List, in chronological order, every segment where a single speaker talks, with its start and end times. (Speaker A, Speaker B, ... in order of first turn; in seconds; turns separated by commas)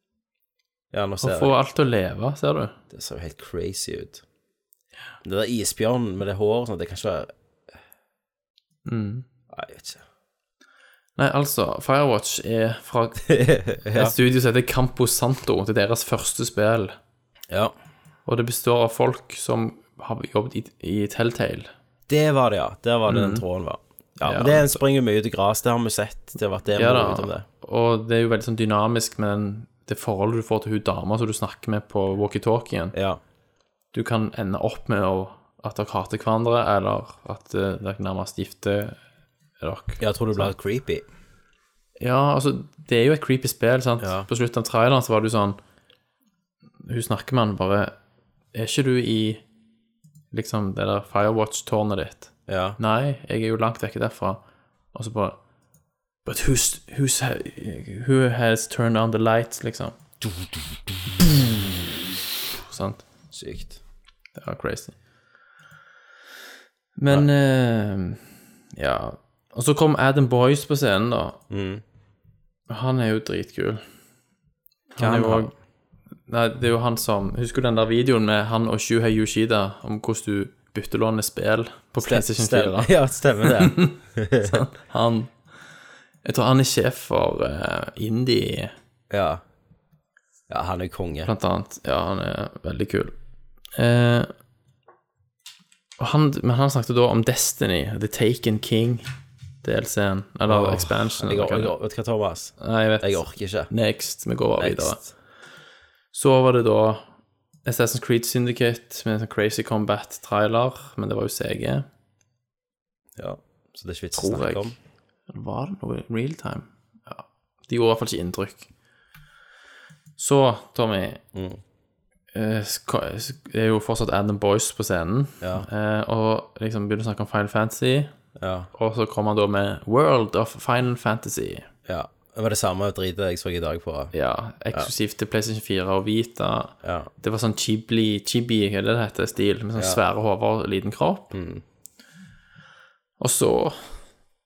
Speaker A: 0.9-1.5, Speaker B: 1.2-2.8, Speaker A: 2.9-4.2, Speaker A: 5.2-7.3, Speaker B: 8.8-9.2, Speaker A: 9.5-10.0, Speaker B: 11.2-13.3, Speaker A: 13.2-14.1, Speaker B: 13.9-16.9, Speaker B: 18.2-21.7, Speaker A: 22.1-27.4, Speaker B: 23.1-23.4, Speaker B: 24.2-24.8, Speaker B: 26.8-32.9, Speaker A: 32.9-33.2, Speaker B: 33.9-39.0, Speaker B: 39.6-40.5, Speaker A: 40.0-41.0, Speaker B: 42.0-45.6, Speaker A: 44.0-44.3, Speaker B: 46.8-48.0, Speaker B: 48.5-49.4, Speaker B: 50.3-54.4, Speaker A: 52.5-52.8, Speaker B: 54.9-55.4, Speaker B: 56.2-60.0, Speaker A: 60.2-61.8, Speaker B: 62.6-63.0, Speaker A: 63.3-63.8, Speaker B: 64.4-65.0, Speaker B: 67.0-71.4, Speaker A: 71.5-71.8, Speaker B: 72.7-73.8, Speaker B: 74.9-75.5, Speaker A: 75.0-75.5, Speaker B: 76.3-85.3, Speaker A: 82.0-84.6, Speaker B: 86.2-88.7, Speaker A: 89.1-89.4, Speaker A: 90.5-91.3, Speaker B: 91.2-93.1, Speaker B: 93.8-94.3, Speaker B: 96.0-99.0, Speaker B: 99.6-101.7, Speaker A: 100.5-103.7, Speaker B: 102.6-105.0, Speaker A: 104.6-105.1, Speaker B: 106.1-107.0, Speaker B: 107.6-111.8, Speaker A: 113.2-114.8, Speaker B: 114.1-114.7, Speaker B: 115.3-118.7, Speaker B: 120.2-121.2, Speaker A: 121.3-121.6, Speaker B: 122.3-128.1, Speaker A: 125.4-125.7, Speaker A: 128.4-128.7, Speaker B: 128.7-131.7, Speaker A: 131.8-134.1, Speaker B: 134.1-141.3, Speaker A: 136.8-137.1, Speaker A: 141.3-141.6, Speaker B: 143.2-144.0